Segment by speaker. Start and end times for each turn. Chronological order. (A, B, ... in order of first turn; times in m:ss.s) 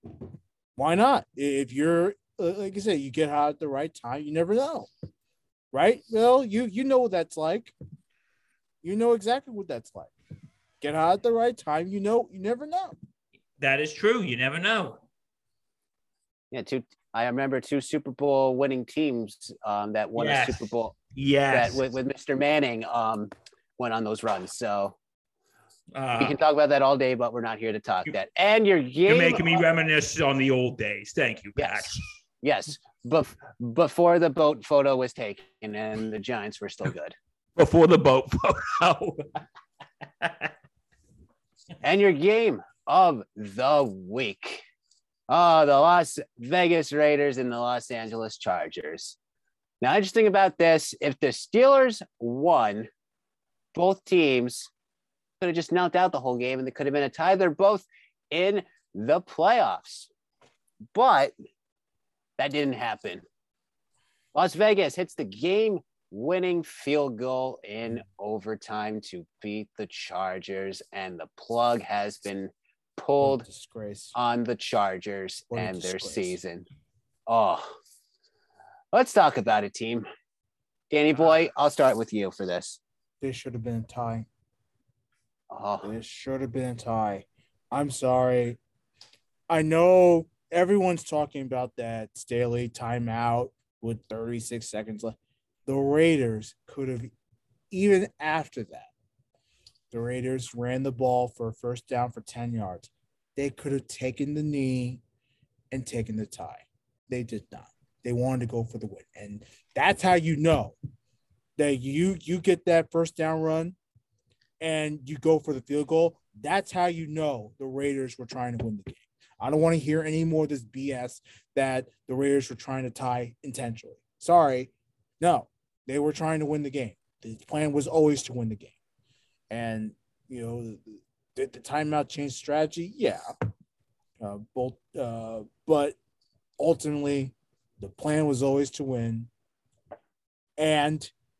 0:00.8-0:04.9 A
0:05.7-0:07.7 A
0:08.8-0:10.1 A
0:10.8-0:12.9 A
0:13.6-0:15.0 B
0:16.5-0:21.0 C
0:20.2-0:21.8 B
0:21.5-0:25.0 C
0:25.9-0:26.4 B
0:26.2-0:29.7 C
0:29.1-0:32.0 B
0:31.6-0:31.9 C
0:32.4-0:37.2 C
0:37.6-0:39.4 B
0:40.2-0:40.5 B
0:41.8-0:44.6 C
0:45.3-0:49.2 C
0:49.8-0:52.9 C
0:53.7-0:54.7 C
0:55.4-1:00.1 C
1:00.9-1:01.3 C
1:02.4-1:03.2 C
1:04.3-1:13.4 C
1:13.2-1:14.1 A
1:14.1-1:16.6 C
1:15.5-1:16.4 A
1:17.3-1:17.8 C
1:18.9-1:20.1 C
1:20.9-1:22.8 C
1:23.2-1:24.3 A
1:25.5-1:25.9 C
1:25.8-1:28.6 A
1:29.5-1:37.1 A
1:37.7-1:38.9 A
1:39.9-1:45.0 A
1:45.7-1:50.7 A
1:51.6-1:53.8 A
1:54.6-2:08.8 A
2:09.5-2:13.2 A
2:14.2-2:16.0 A
2:16.6-2:19.3 A
2:20.6-2:21.1 A